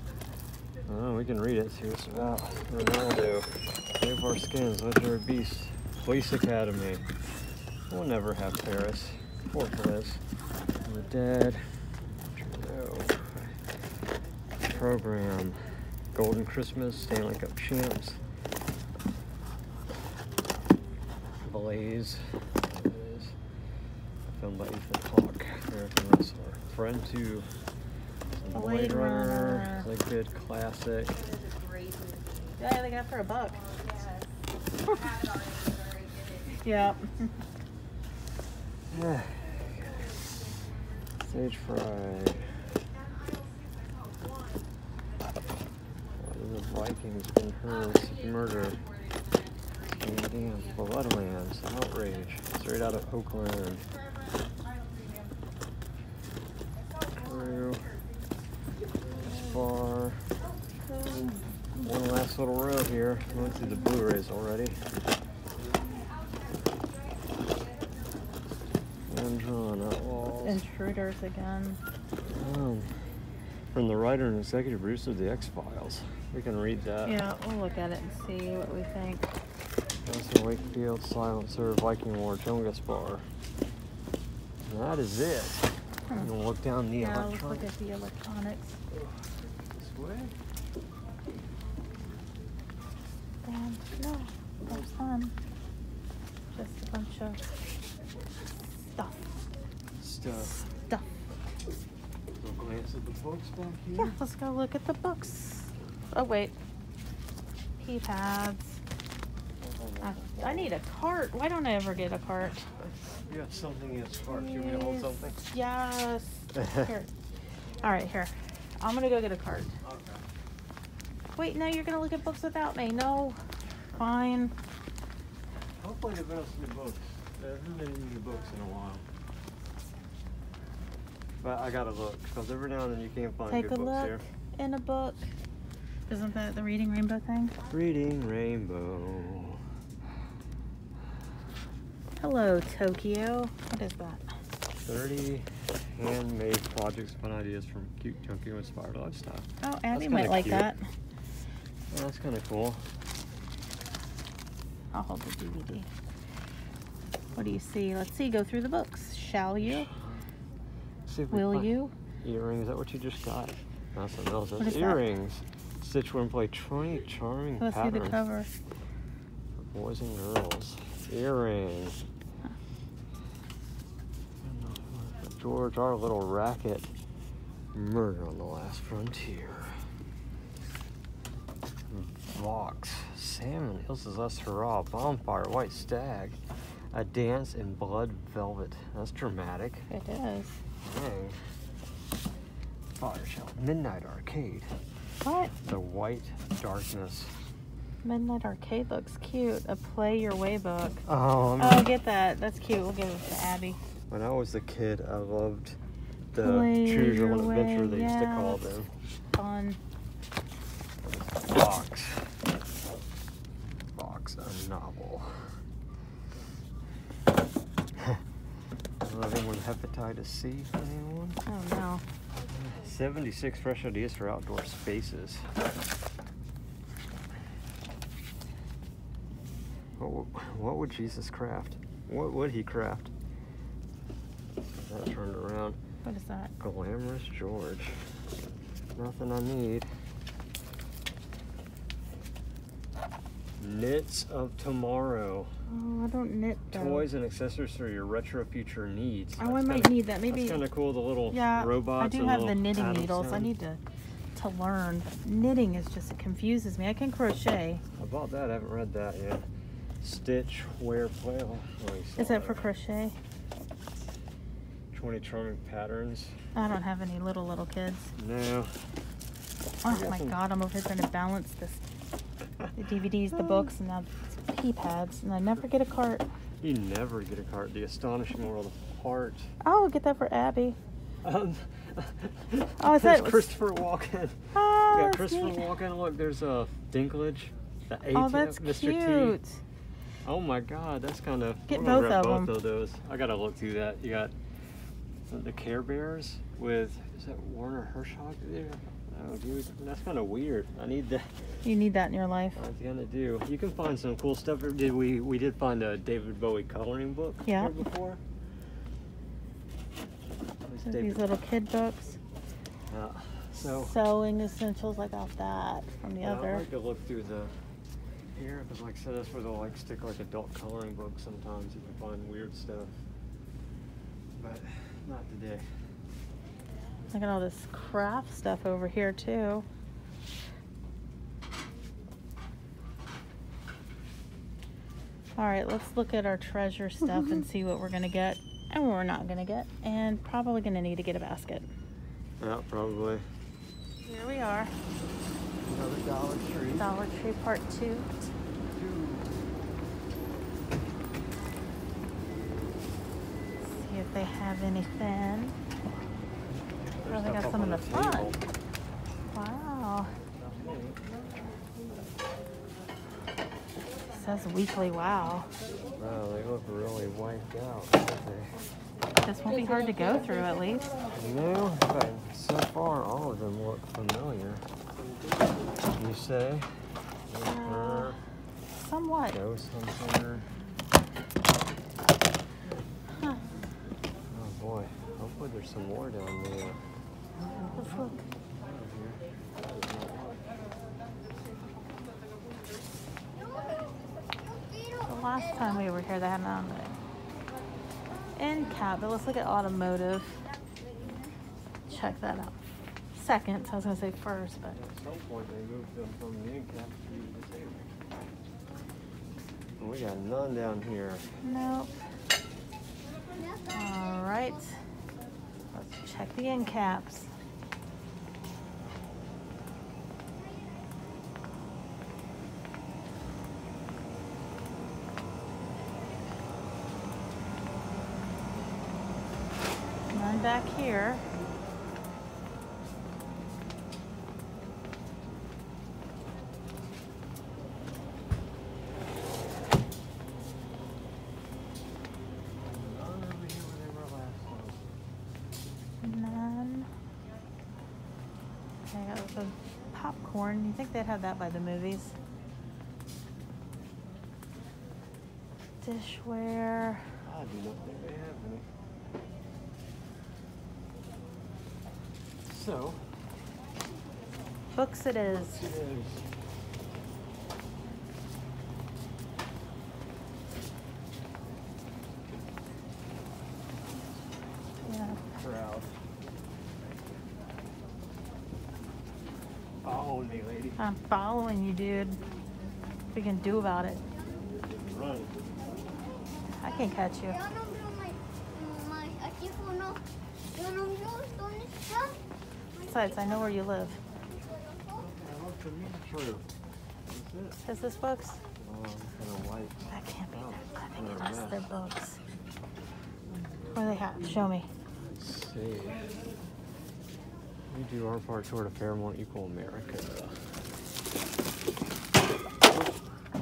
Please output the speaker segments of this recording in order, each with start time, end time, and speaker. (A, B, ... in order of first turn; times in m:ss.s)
0:00.9-0:07.0 A
0:07.9-0:10.2 A
0:10.8-0:13.6 A
0:14.6-0:18.2 A
0:21.4-0:23.4 A
0:24.2-0:27.5 A
0:28.4-0:31.2 A
0:28.5-0:29.9 B
0:31.9-0:32.2 C
0:32.6-0:33.6 B
0:33.8-0:34.2 C
0:35.2-0:36.4 C
0:36.5-0:37.3 B
0:38.9-0:40.2 A
0:41.2-0:42.5 A
0:46.2-0:48.8 A
0:49.9-0:53.8 A
0:57.1-0:58.0 A
0:59.2-1:00.3 A
1:00.9-1:01.4 B
1:01.8-1:04.8 A
1:09.1-1:10.6 A
1:10.4-1:11.8 B
1:12.2-1:13.0 A
1:13.7-1:17.2 A
1:17.0-1:19.4 B
1:20.0-1:23.2 A
1:24.6-1:27.7 A
1:27.0-1:28.8 B
1:28.9-1:29.2 A
1:29.7-1:30.3 A
1:33.4-1:35.3 B
1:36.5-1:37.5 B
1:38.8-1:39.3 B
1:40.0-1:40.6 A
1:40.3-1:41.0 B
1:42.4-1:44.2 A
1:43.9-1:46.5 B
1:47.8-1:48.8 B
1:49.6-1:50.7 A
1:50.0-1:52.6 B
1:52.8-1:55.4 A
1:54.3-1:57.1 B
1:56.5-1:56.9 A
1:57.8-1:59.8 B
1:59.8-2:00.2 A
2:01.4-2:03.4 B
2:03.9-2:04.5 B
2:05.8-2:09.0 A
2:11.4-2:14.2 A
2:13.5-2:15.3 B
2:16.1-2:17.5 B
2:17.7-2:19.6 A
2:22.2-2:24.2 B
2:24.8-2:30.7 A
2:29.6-2:30.8 B
2:31.9-2:32.8 A
2:34.9-2:35.9 B
2:37.3-2:39.9 B
2:39.6-2:40.2 A
2:41.0-2:48.2 A
2:41.3-2:41.9 B
2:44.6-2:45.0 B
2:47.6-2:48.5 B
2:49.6-2:52.0 A
2:54.4-2:56.9 A
2:57.7-2:59.8 A
3:01.9-3:06.4 A
3:06.9-3:09.9 A
3:09.9-3:10.6 B
3:10.8-3:11.4 A
3:12.9-3:14.7 A
3:15.2-3:15.5 B
3:15.5-3:17.3 A
3:18.0-3:21.0 B
3:21.0-3:21.9 A
3:21.6-3:23.8 B
3:24.1-3:25.8 A
3:26.3-3:28.9 A
3:26.4-3:28.8 B
3:29.3-3:29.8 B
3:31.0-3:32.4 A
3:33.9-3:35.6 A
3:39.0-3:41.4 A
3:41.4-3:42.0 B
3:42.5-3:45.6 A
3:50.0-3:53.1 A
3:54.8-3:55.8 A
3:56.0-3:56.5 B
3:56.6-3:58.1 A
3:59.0-3:59.9 A
4:03.6-4:05.5 A
4:05.7-4:07.1 B
4:06.7-4:13.5 A
4:09.4-4:10.6 B
4:11.3-4:13.8 B
4:14.3-4:17.8 B
4:18.0-4:19.4 A
4:20.0-4:22.6 A
4:22.2-4:23.2 B
4:24.9-4:26.4 A
4:26.5-4:28.1 B
4:28.2-4:28.7 A
4:29.8-4:31.8 B
4:29.8-4:30.4 A
4:32.7-4:36.2 B
4:33.3-4:33.7 A
4:36.6-4:39.5 A
4:39.6-4:40.8 B
4:41.2-4:49.4 A
4:42.8-4:43.5 B
4:44.5-4:45.7 B
4:48.1-4:49.6 B
4:50.2-4:54.3 A
4:51.7-4:52.5 B
4:55.3-5:01.4 A
5:01.6-5:02.6 B
5:02.5-5:08.2 A
5:07.4-5:07.7 B
5:10.6-5:11.3 A
5:10.8-5:12.2 B
5:12.9-5:13.9 A
5:13.8-5:16.6 B
5:16.2-5:17.5 A
5:18.3-5:23.0 A
5:24.4-5:25.6 A
5:27.1-5:29.6 B
5:35.4-5:41.7 B
5:42.4-5:43.2 A
5:44.0-5:44.7 B
5:45.6-5:46.9 A
5:46.7-5:48.3 B
5:48.7-5:49.4 A
5:53.6-5:55.6 B
5:57.0-5:58.4 A
5:57.0-5:58.3 B
5:59.3-6:00.2 B
6:00.4-6:01.0 A
6:04.1-6:05.5 B
6:06.0-6:08.6 A
6:09.2-6:10.8 B
6:11.1-6:14.6 A
6:15.9-6:16.7 A
6:17.3-6:18.2 A
6:17.4-6:18.2 B
6:18.7-6:19.4 B
6:19.3-6:20.5 A
6:24.3-6:26.8 A
6:27.7-6:28.2 B
6:28.6-6:30.4 A
6:33.3-6:35.4 C
6:35.0-6:37.0 B
6:38.4-6:40.4 B
6:41.9-6:42.6 B
6:43.1-6:44.8 B
6:44.7-6:47.9 A
6:49.8-6:51.3 A
6:51.4-6:51.9 B
6:53.7-6:54.8 B
6:55.7-6:57.3 B
7:10.1-7:11.2 B
7:22.6-7:24.9 A
7:26.0-7:26.9 B
7:28.9-7:32.1 B
7:35.8-7:37.2 B
7:37.2-7:38.6 A
7:42.5-7:43.0 A
7:44.7-7:45.7 B
7:45.2-7:46.3 A
7:54.8-7:55.2 B
7:55.4-7:55.9 A
7:59.8-8:00.8 A
8:00.8-8:02.2 B
8:03.1-8:04.0 B
8:04.8-8:05.3 A
8:06.6-8:07.4 B
8:07.2-8:12.2 C
8:12.8-8:13.3 C
8:12.9-8:14.0 B
8:14.4-8:15.0 C
8:14.9-8:16.5 A
8:17.0-8:17.6 A
8:17.6-8:18.4 B
8:18.6-8:21.6 A
8:19.9-8:22.2 B
8:23.7-8:24.7 B
8:25.0-8:26.1 A
8:27.7-8:30.4 A